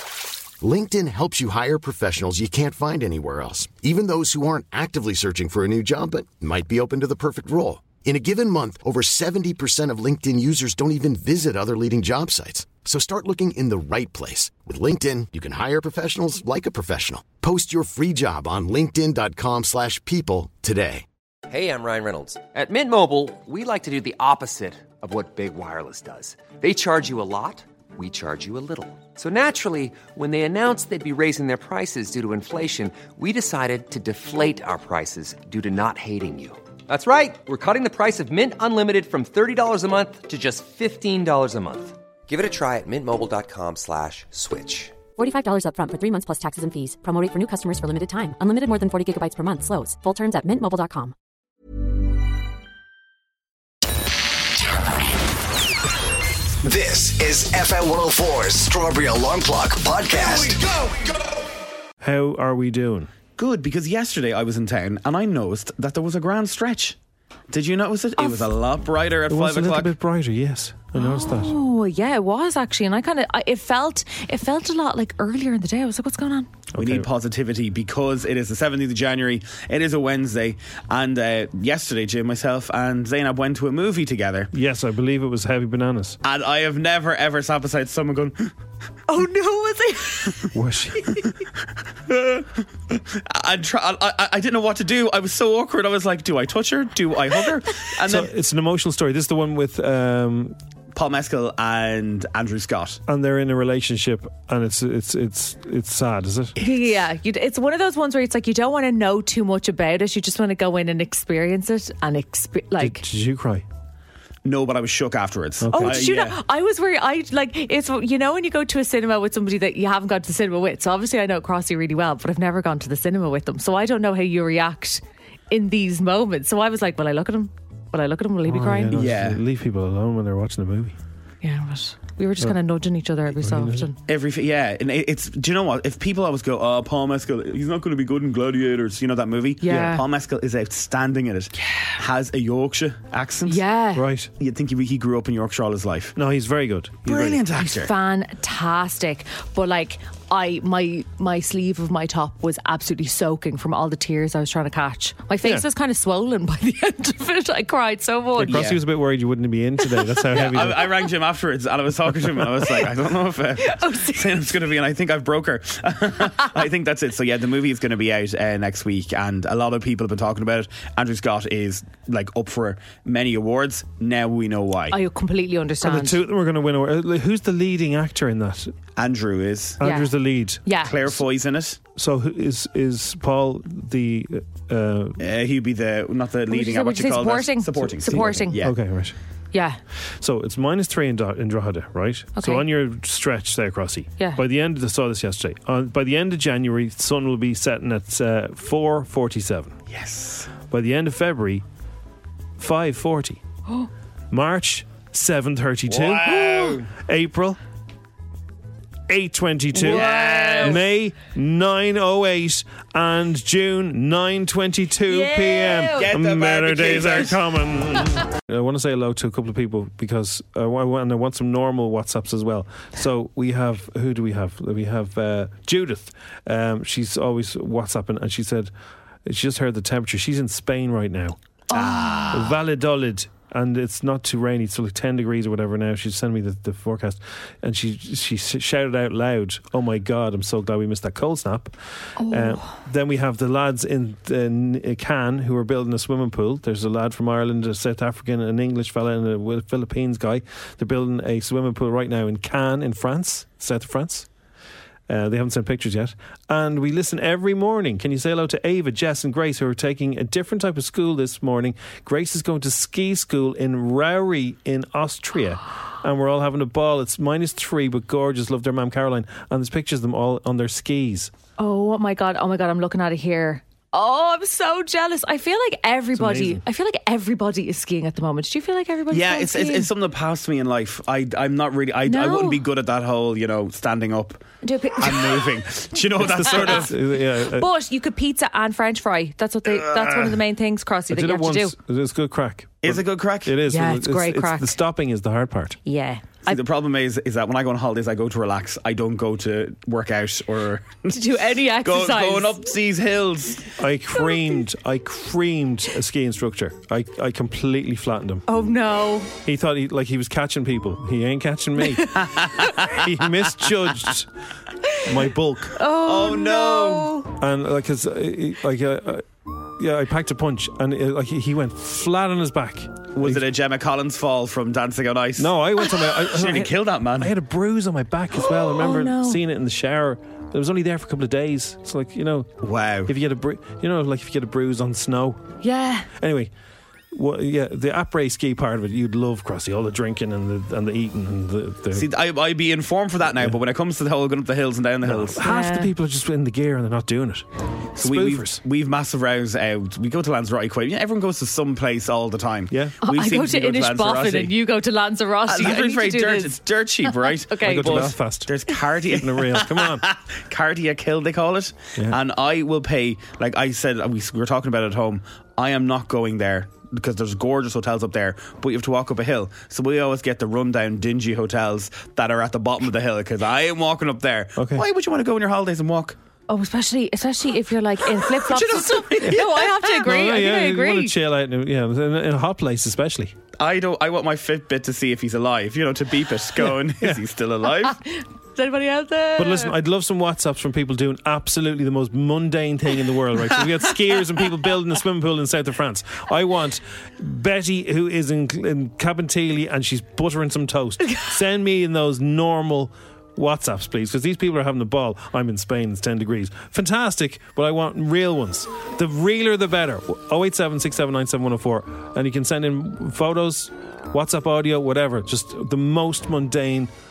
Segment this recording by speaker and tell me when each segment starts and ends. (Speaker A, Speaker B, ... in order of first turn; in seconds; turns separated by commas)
Speaker A: 0.6-21.0, Speaker B: 21.5-45.0, Speaker C: 45.1-51.1, Speaker D: 56.6-60.7, Speaker E: 62.0-63.1, Speaker F: 63.4-67.0, Speaker F: 67.5-69.9, Speaker G: 68.2-68.4, Speaker E: 69.3-71.5, Speaker G: 70.9-76.5, Speaker E: 76.7-77.1, Speaker F: 76.8-84.5, Speaker E: 84.5-86.2, Speaker F: 86.2-88.5, Speaker G: 89.1-90.5, Speaker E: 90.5-91.3, Speaker F: 92.1-98.3, Speaker E: 98.0-100.5, Speaker F: 100.9-103.0, Speaker E: 103.1-106.6, Speaker G: 106.6-113.0, Speaker E: 112.8-113.6, Speaker F: 114.4-116.4, Speaker E: 115.6-116.0, Speaker G: 115.7-129.1, Speaker E: 128.4-131.0, Speaker F: 128.9-129.4, Speaker G: 131.4-133.9, Speaker E: 133.4-133.8, Speaker F: 134.1-143.6, Speaker G: 139.6-140.0, Speaker G: 143.5-144.0, Speaker E: 143.9-144.3, Speaker F: 144.4-146.1, Speaker E: 146.2-147.4, Speaker F: 147.1-147.9, Speaker G: 147.5-158.7, Speaker E: 158.4-160.8, Speaker F: 158.5-158.8, Speaker F: 160.3-174.9, Speaker G: 163.6-164.3, Speaker G: 174.9-176.2, Speaker E: 175.8-178.7, Speaker F: 179.0-179.8, Speaker E: 179.8-180.7, Speaker G: 179.8-180.1, Speaker G: 180.7-180.9, Speaker F: 180.8-181.8, Speaker E: 181.9-185.2, Speaker F: 185.2-188.7, Speaker G: 186.5-188.6, Speaker E: 188.1-189.2, Speaker G: 189.5-189.8, Speaker E: 190.2-199.7, Speaker G: 192.4-192.6, Speaker F: 199.9-200.5, Speaker E: 200.7-201.6, Speaker E: 202.6-203.4, Speaker E: 204.3-206.4, Speaker F: 205.9-206.9, Speaker G: 206.3-206.7, Speaker E: 206.9-207.6, Speaker E: 209.1-228.7, Speaker F: 209.8-210.8, Speaker G: 209.9-210.8, Speaker G: 215.1-216.1, Speaker F: 215.9-217.4, Speaker E: 229.2-231.4, Speaker G: 231.7-232.3, Speaker F: 231.7-232.5, Speaker E: 232.3-241.7, Speaker G: 242.2-242.7, Speaker E: 242.2-254.3, Speaker E: 255.1-271.3, Speaker G: 271.6-279.9, Speaker E: 276.1-276.6, Speaker F: 279.1-284.4, Speaker G: 282.1-282.6, Speaker G: 284.6-285.5, Speaker F: 285.0-286.9, Speaker E: 286.2-287.7, Speaker G: 286.5-286.8, Speaker G: 287.4-291.7, Speaker E: 291.1-295.8, Speaker F: 292.8-293.6, Speaker G: 293.7-294.8, Speaker G: 295.9-296.6, Speaker F: 296.5-301.1, Speaker G: 301.1-302.6, Speaker F: 301.8-303.7, Speaker E: 303.8-308.4, Speaker G: 308.5-309.3, Speaker E: 309.4-312.3, Speaker G: 312.0-312.2, Speaker F: 312.2-313.1, Speaker E: 312.8-314.3, Speaker E: 315.0-315.8, Speaker G: 315.8-317.3, Speaker F: 316.0-317.1, Speaker E: 317.4-323.4, Speaker F: 323.1-327.3, Speaker E: 325.4-332.5, Speaker G: 328.4-329.4, Speaker F: 332.6-333.1, Speaker E: 333.1-335.4, Speaker G: 335.6-336.1, Speaker E: 336.1-336.5, Speaker E: 337.1-342.1, Speaker F: 341.9-345.4, Speaker E: 345.0-347.4, Speaker G: 345.4-345.9, Speaker F: 348.0-354.5, Speaker E: 348.0-348.6, Speaker E: 352.7-353.0, Speaker G: 353.0-358.1, Speaker F: 355.5-376.2, Speaker E: 357.6-360.1, Speaker E: 374.6-374.9, Speaker G: 376.5-381.1, Speaker F: 378.2-379.8, Speaker E: 380.0-383.3, Speaker F: 383.6-388.0, Speaker G: 387.8-389.7, Speaker E: 389.4-416.9